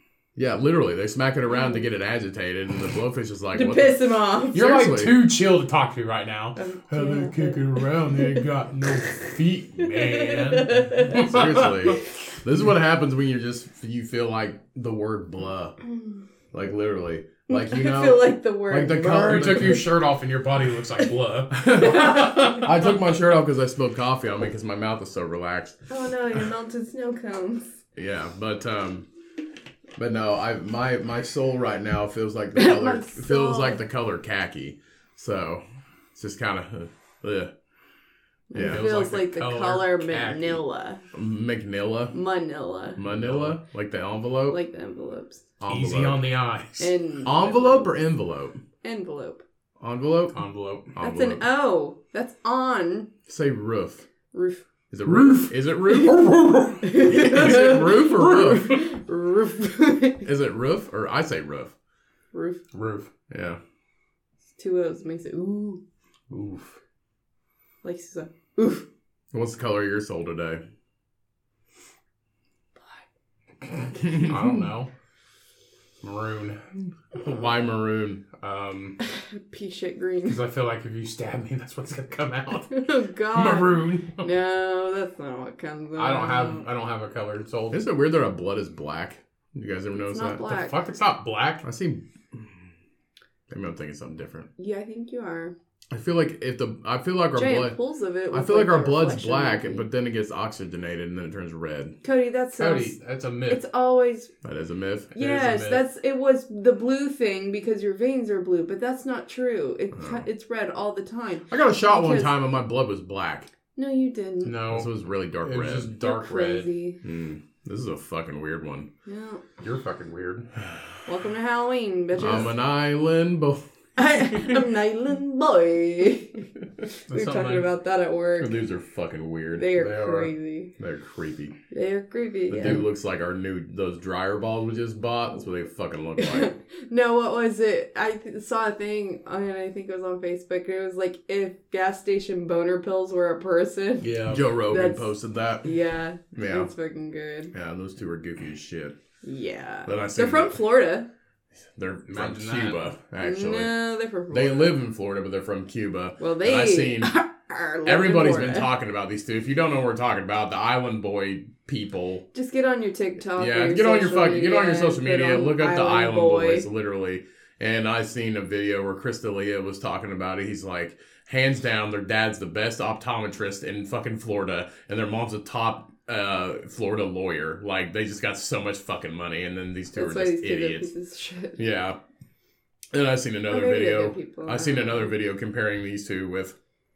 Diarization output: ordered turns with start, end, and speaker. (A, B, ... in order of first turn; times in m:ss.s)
0:00.4-0:04.0 A
0:01.5-0:01.8 B
0:03.5-0:04.7 B
0:04.5-0:12.0 C
0:04.5-0:05.2 A
0:06.6-0:08.4 B
0:09.8-0:11.3 B
0:11.1-0:15.8 A
0:16.5-0:19.8 A
0:17.5-0:19.8 B
0:19.2-0:22.7 C
0:21.5-0:25.8 A
0:21.8-0:22.6 B
0:25.9-0:27.7 B
0:27.9-0:29.1 A
0:30.0-0:35.6 A
0:32.5-0:33.8 B
0:36.1-0:37.5 A
0:38.5-0:41.0 B
0:38.5-0:38.8 A
0:38.6-0:40.6 C
0:41.1-0:42.1 A
0:42.1-0:43.0 B
0:43.0-0:44.6 A
0:43.1-0:43.5 C
0:44.5-0:45.4 B
0:45.6-0:46.2 A
0:45.7-0:46.9 C
0:46.8-0:47.9 B
0:47.2-0:48.6 A
0:48.8-0:49.4 B
0:49.8-0:50.4 A
0:50.3-0:50.9 C
0:50.9-0:51.4 A
0:51.0-0:53.1 B
0:53.3-0:54.0 A
0:54.3-0:54.6 B
0:54.9-0:58.7 A
0:55.0-0:58.8 C
0:56.8-1:00.2 B
1:00.2-1:01.7 A
1:02.3-1:02.6 B
1:02.7-1:03.1 C
1:03.3-1:03.6 A
1:04.6-1:05.8 B
1:06.3-1:06.7 C
1:07.8-1:08.9 B
1:09.3-1:10.6 A
1:12.8-1:13.0 B
1:13.9-1:14.7 A
1:14.1-1:14.9 C
1:16.0-1:16.6 C
1:17.1-1:18.2 A
1:18.4-1:19.0 C
1:19.0-1:20.4 B
1:20.3-1:22.8 C
1:22.7-1:26.6 B
1:23.3-1:24.2 C
1:26.0-1:27.8 C
1:27.7-1:30.4 A
1:30.0-1:30.8 B
1:30.4-1:31.6 C
1:31.6-1:32.5 A
1:33.5-1:34.5 A
1:34.6-1:35.5 B
1:35.9-1:37.8 A
1:37.3-1:39.9 B
1:38.3-1:42.0 A
1:42.0-1:43.0 B
1:42.6-1:43.6 C
1:43.5-1:44.3 B
1:44.4-1:45.1 A
1:45.1-1:45.8 C
1:45.2-1:52.3 B
1:49.9-1:50.2 A
1:51.5-1:53.5 A
1:53.7-1:54.6 B
1:54.4-1:54.9 C
1:54.7-1:55.9 A
1:55.4-1:56.7 C
1:56.0-1:57.0 B
1:57.0-1:58.9 A
1:59.0-1:59.4 B
1:59.6-2:00.5 C
2:01.0-2:02.5 B
2:02.2-2:03.6 A
2:04.0-2:06.5 B
2:07.1-2:08.5 B
2:07.1-2:07.7 C
2:08.4-2:11.5 A
2:09.6-2:10.7 B
2:11.7-2:12.9 B
2:12.5-2:16.5 A
2:16.2-2:25.1 B
2:24.0-2:24.4 C
2:24.2-2:25.7 A
2:25.6-2:27.5 B
2:26.3-2:26.7 A
2:27.5-2:29.0 A
2:29.2-2:31.1 B
2:29.8-2:30.6 A
2:31.7-2:33.8 A
2:32.1-2:32.9 C
2:33.2-2:34.8 B
2:34.3-2:37.2 A
2:36.2-2:38.7 B
2:37.8-2:42.2 A
2:42.3-2:46.6 B
2:43.4-3:00.9 A
2:59.9-3:01.6 B
3:01.6-3:02.0 A
3:02.9-3:06.6 A
3:03.5-3:05.1 B